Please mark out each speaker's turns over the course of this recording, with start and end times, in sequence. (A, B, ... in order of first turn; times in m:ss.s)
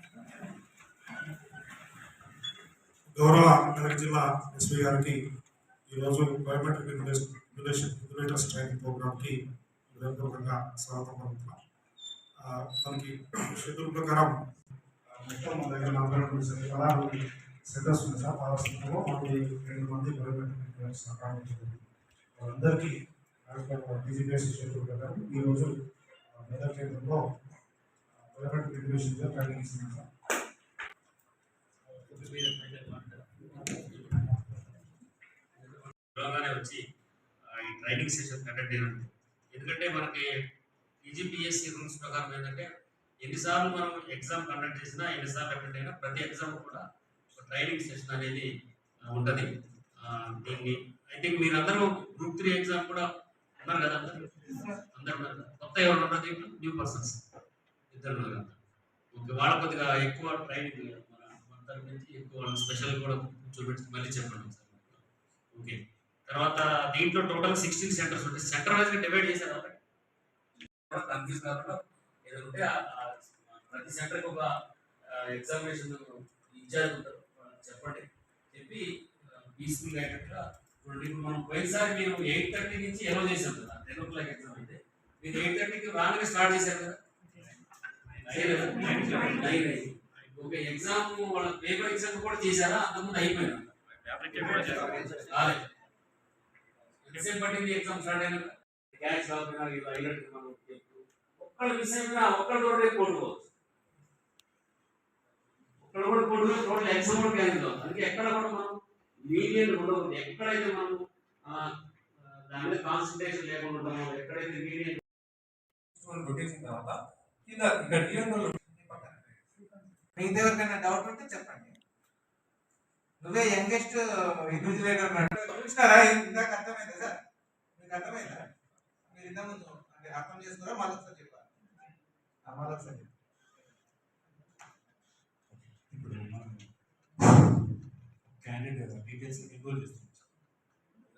0:03.1-0:05.2 A
0:05.9-0:11.6 A
0:12.4-0:14.4 A
0:15.1-0:21.8 A
0:22.4-0:25.8 A
0:26.4-0:27.2 A
0:28.2-0:30.1 A
0:31.9-0:34.6 B
0:35.5-0:36.8 B
0:37.4-0:40.3 B
0:41.0-0:42.7 B
0:43.2-0:48.5 B
0:49.0-0:53.1 B
0:53.6-0:57.2 B
0:57.9-0:58.6 B
0:59.1-1:09.8 B
1:10.9-1:14.5 B
1:15.0-1:27.4 B
1:28.2-1:33.7 B
1:28.9-1:29.2 C
1:34.1-1:35.1 C
1:34.3-1:35.7 B
1:34.4-1:35.1 D
1:37.0-1:43.5 B
1:45.8-1:55.0 B
1:56.0-1:58.6 C
1:58.6-1:59.3 D
2:00.2-2:01.8 D
2:03.2-2:07.2 D
2:07.8-2:08.5 D
2:09.1-2:11.5 D
2:12.4-2:13.1 D
2:15.8-2:16.7 B
2:17.2-2:17.6 B
2:18.3-2:20.2 B